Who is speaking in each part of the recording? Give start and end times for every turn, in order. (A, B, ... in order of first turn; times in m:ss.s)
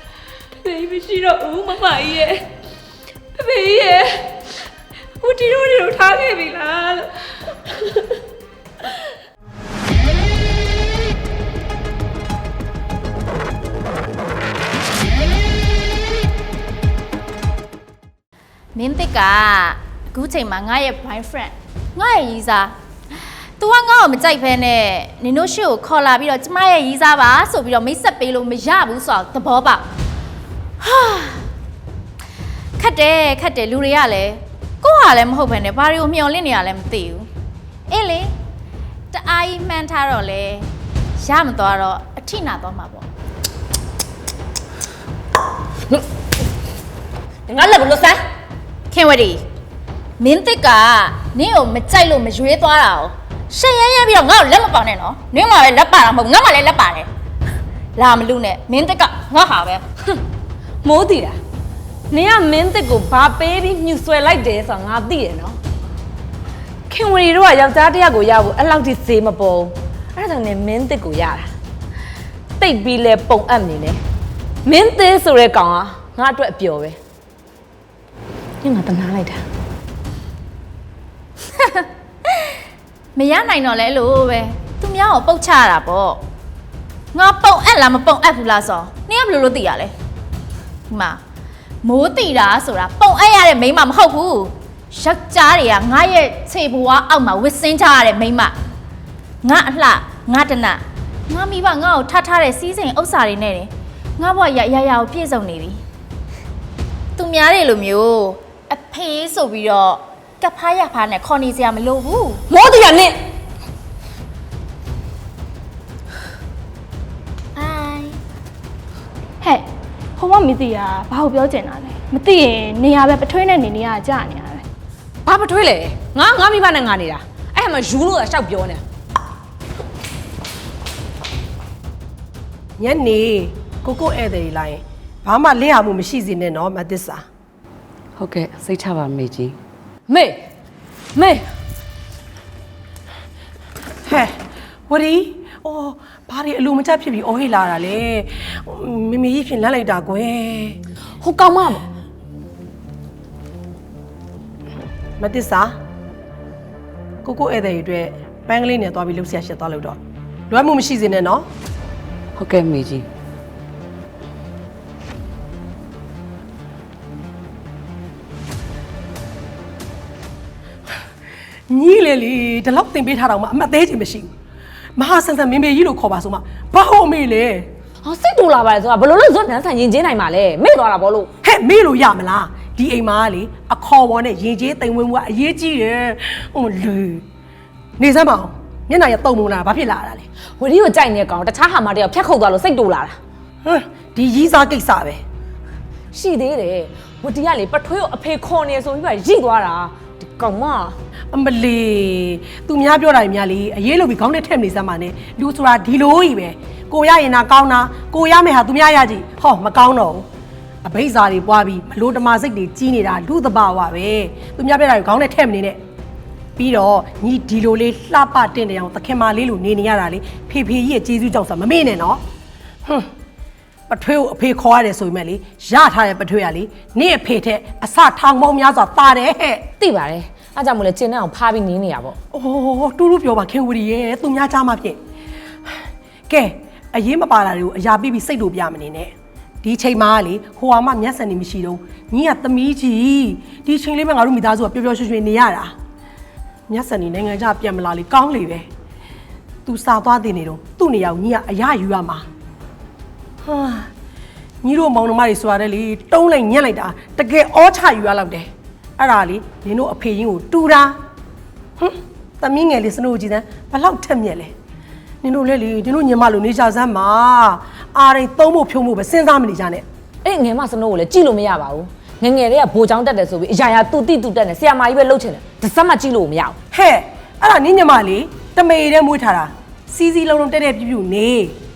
0:00.6-0:02.5 A
0:03.4-0:04.4 A
0:05.2-0:07.1 A
0:18.7-0:29.9 B
0:30.8-0:31.4 B
0:32.8-0:37.3 B
0:37.9-0:38.3 B
0:39.1-0:43.0 B
0:47.5-0:48.2 C
0:48.9-0:49.4 B
0:50.2-0:57.1 B
0:57.9-0:59.8 B
1:00.8-1:01.4 C
1:02.1-1:05.6 C
1:06.9-1:11.5 C
1:12.6-1:14.0 C
1:14.6-1:17.0 C
1:18.6-1:19.4 C
1:21.6-1:21.8 B
1:23.1-1:26.2 B
1:27.1-1:29.9 B
1:30.9-1:31.2 B
1:31.8-1:38.6 B
1:39.4-1:45.8 B
1:47.2-1:52.4 B
1:52.5-1:53.2 C
1:57.6-1:58.0 B
1:59.4-2:04.6 D
2:05.2-2:08.8 C
2:12.8-2:17.2 E
2:18.2-2:19.6 F
2:20.1-2:20.4 C
2:21.2-2:21.4 C
2:24.0-2:30.8 E
2:31.2-2:31.8 C
2:35.2-2:35.7 E
2:37.2-2:40.0 E
2:40.5-2:41.4 E
2:42.3-2:43.1 F
2:51.7-2:54.3 E
2:55.0-2:57.7 E
2:58.0-3:01.3 C
3:01.4-3:07.2 E
3:08.0-3:10.2 E
3:10.6-3:13.2 C
3:13.6-3:15.2 E
3:16.1-3:21.0 C
3:21.3-3:30.3 E
3:30.8-3:35.8 E
3:36.6-3:42.2 E
3:43.9-3:49.6 E
3:49.8-3:52.2 C
3:52.3-3:55.0 E
3:56.3-4:05.7 E
4:06.7-4:08.7 E
4:09.6-4:12.2 E
4:13.4-4:13.9 E
4:14.6-4:21.0 E
4:21.8-4:24.5 E
4:25.2-4:29.8 E
4:30.2-4:36.6 C
4:36.7-4:41.5 E